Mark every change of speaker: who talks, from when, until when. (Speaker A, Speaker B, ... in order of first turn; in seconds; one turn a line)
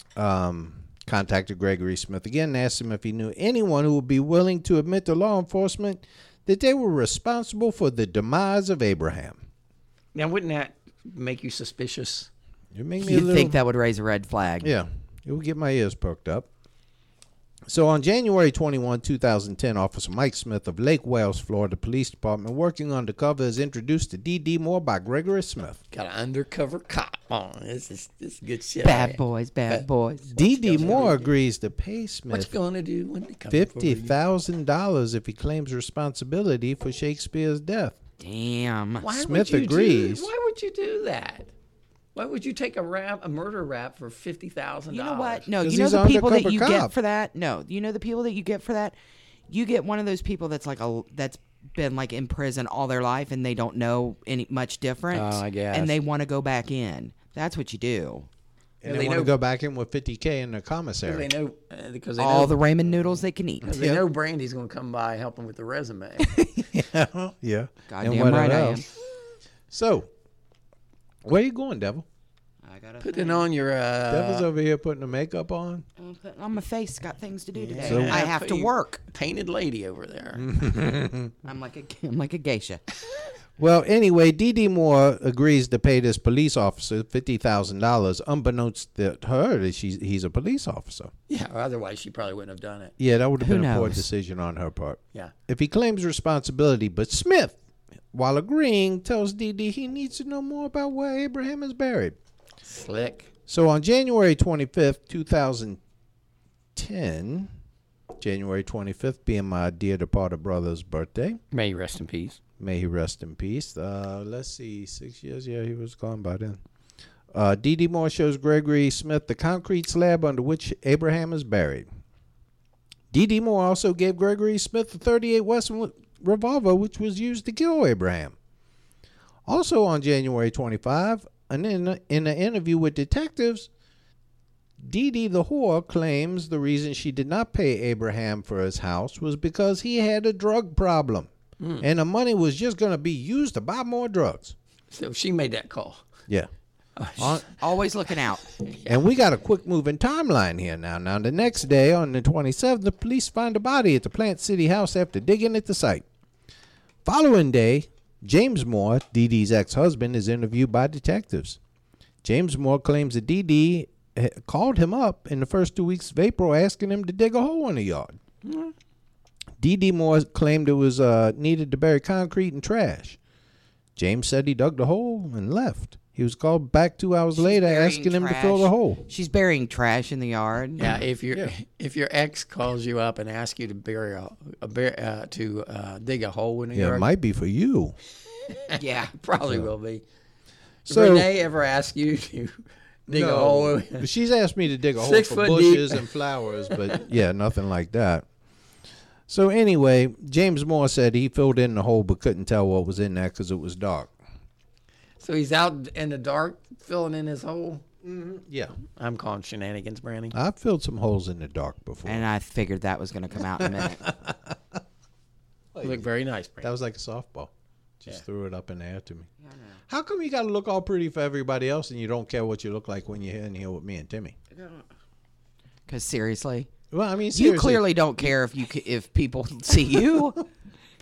Speaker A: 0.2-9.4
Speaker B: 10.2-12.3
Speaker A: 12.7-13.6
Speaker C: 13.0-14.7
Speaker A: 14.6-16.5
Speaker A: 17.7-25.8
Speaker B: 25.9-29.9
Speaker C: 28.8-31.2
Speaker A: 30.3-32.5
Speaker B: 30.6-31.2
Speaker B: 32.3-34.2
Speaker A: 33.5-38.0
Speaker C: 38.2-39.0
Speaker B: 39.0-41.5
Speaker A: 39.1-40.3
Speaker B: 42.1-45.5
Speaker C: 44.9-49.0
Speaker A: 45.6-46.9
Speaker C: 49.5-58.3
Speaker B: 55.1-56.0
Speaker A: 58.8-61.3
Speaker B: 58.9-59.3
Speaker B: 61.0-62.6
Speaker C: 62.2-63.6
Speaker A: 63.6-64.0
Speaker B: 63.6-66.4
Speaker A: 66.3-68.8
Speaker C: 67.9-68.8
Speaker A: 69.7-70.1
Speaker A: 71.2-72.0
Speaker C: 72.6-73.5
Speaker B: 73.0-74.5
Speaker A: 74.1-75.8
Speaker C: 76.0-79.0
Speaker B: 77.5-80.5
Speaker A: 77.8-78.2
Speaker A: 80.4-81.3
Speaker C: 81.4-82.8
Speaker A: 83.6-91.1
Speaker B: 91.3-92.9
Speaker A: 93.0-97.6
Speaker C: 93.4-94.0
Speaker A: 98.1-102.2
Speaker B: 102.6-103.3
Speaker A: 103.5-105.8
Speaker A: 106.8-107.5
Speaker A: 108.2-111.4
Speaker B: 111.5-112.4
Speaker A: 112.6-116.6
Speaker A: 117.3-121.9
Speaker A: 123.1-128.4
Speaker A: 129.5-133.7
Speaker A: 134.8-144.6
Speaker B: 141.6-141.9
Speaker B: 144.9-146.0
Speaker B: 147.0-147.4
Speaker A: 147.2-147.4
Speaker C: 147.5-148.4
Speaker B: 148.6-149.0
Speaker A: 148.9-156.1
Speaker A: 157.1-161.6
Speaker A: 162.2-168.2
Speaker B: 168.4-168.7
Speaker A: 169.6-173.2
Speaker A: 174.0-179.0
Speaker C: 177.3-181.0
Speaker B: 180.8-187.1
Speaker A: 186.7-188.0
Speaker B: 188.7-190.0
Speaker C: 188.8-189.2
Speaker A: 190.9-191.3
Speaker B: 190.9-194.1
Speaker A: 193.1-198.3
Speaker B: 195.0-196.1
Speaker B: 196.7-197.0
Speaker A: 199.3-204.1
Speaker B: 205.2-207.8
Speaker A: 208.0-208.8
Speaker B: 209.0-210.3
Speaker A: 210.3-212.3
Speaker C: 212.1-214.1
Speaker A: 213.6-214.8
Speaker A: 215.7-216.1
Speaker B: 215.8-216.7
Speaker A: 216.6-219.3
Speaker C: 219.5-219.8
Speaker A: 219.9-224.4
Speaker C: 224.5-224.8
Speaker C: 225.9-226.7
Speaker A: 226.9-228.0
Speaker C: 227.3-230.4